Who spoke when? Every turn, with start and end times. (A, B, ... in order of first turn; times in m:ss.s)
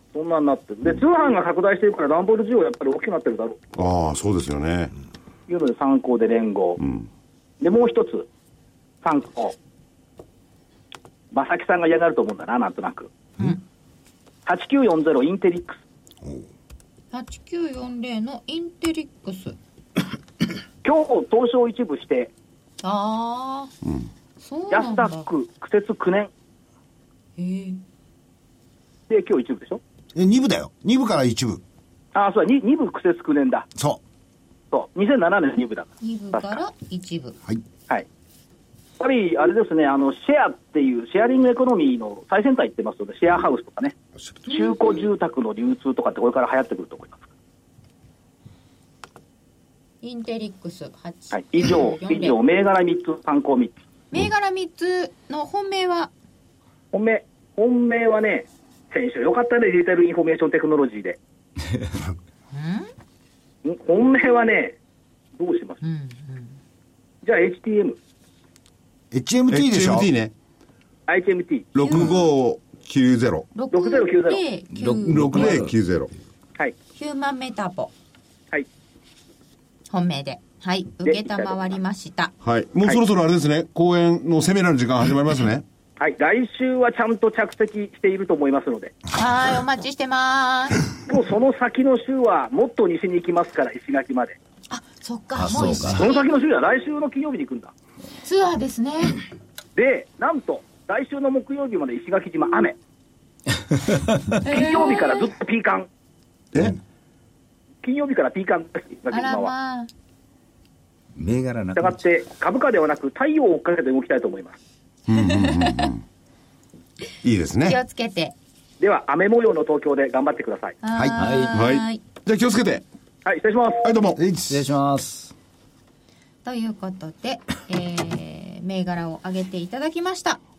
0:00.1-0:03.6 A
0:03.8-0:04.9 B
0:05.5-0:06.8 A
0:06.8-0:07.1 B
0:07.6-0:08.3 A
0:09.0-0:09.5 A
0:11.3-0:13.1 A
0:14.4-0:15.8 A
0:17.1-0:19.6 C
0:20.8-0:22.3 A
0:22.8-0:23.7 C
0:24.4-0:25.3 C
0:24.7-0:26.3 A
0:27.4-0:27.8 C
0:29.1-0:29.8 A
0:30.1-0:31.6 D
0:32.1-0:33.7 A
0:33.7-0:34.0 D
0:34.7-0:36.6 A
0:36.0-0:37.4 C
0:39.0-0:43.9 A
0:44.4-0:45.0 C
0:44.5-0:47.2 A
0:50.0-0:52.4 C
0:51.3-0:53.7 A
0:54.1-0:56.1 C
0:56.9-1:01.2 A
1:02.5-1:02.9 C
1:03.6-1:04.8 A
1:05.4-1:05.8 A
1:05.8-1:06.5 C
1:07.2-1:08.0 A
1:09.1-1:10.1 D
1:09.5-1:10.3 B
1:11.1-1:11.7 A
1:11.7-1:13.5 B
1:11.8-1:12.3 C
1:13.5-1:15.6 C
1:13.7-1:14.4 A
1:14.8-1:15.7 E
1:14.8-1:16.1 B
1:16.9-1:17.9 C
1:19.9-1:22.3 C
1:21.0-1:21.7 A
1:22.4-1:25.6 B
1:26.0-1:29.0 A
1:29.1-1:30.9 C
1:31.1-1:34.4 A
1:34.7-1:36.3 C
1:35.4-1:36.0 E
1:35.8-1:37.7 A
1:38.2-1:39.2 C
1:39.8-1:42.8 A
1:44.4-1:45.3 C
1:44.4-1:45.9 A
1:47.8-1:49.5 A
1:49.1-1:49.9 C
1:51.2-1:52.0 E
1:51.8-1:54.6 A
1:55.1-1:56.0 B
1:55.2-1:55.9 C
1:57.2-1:57.8 B
1:57.6-1:58.3 C
1:58.8-2:00.8 A
2:00.8-2:02.0 C
2:01.2-2:01.6 E
2:01.5-2:02.8 B
2:03.2-2:03.9 A
2:03.8-2:04.2 B
2:04.2-2:04.6 D
2:04.4-2:05.3 E
2:06.4-2:10.4 C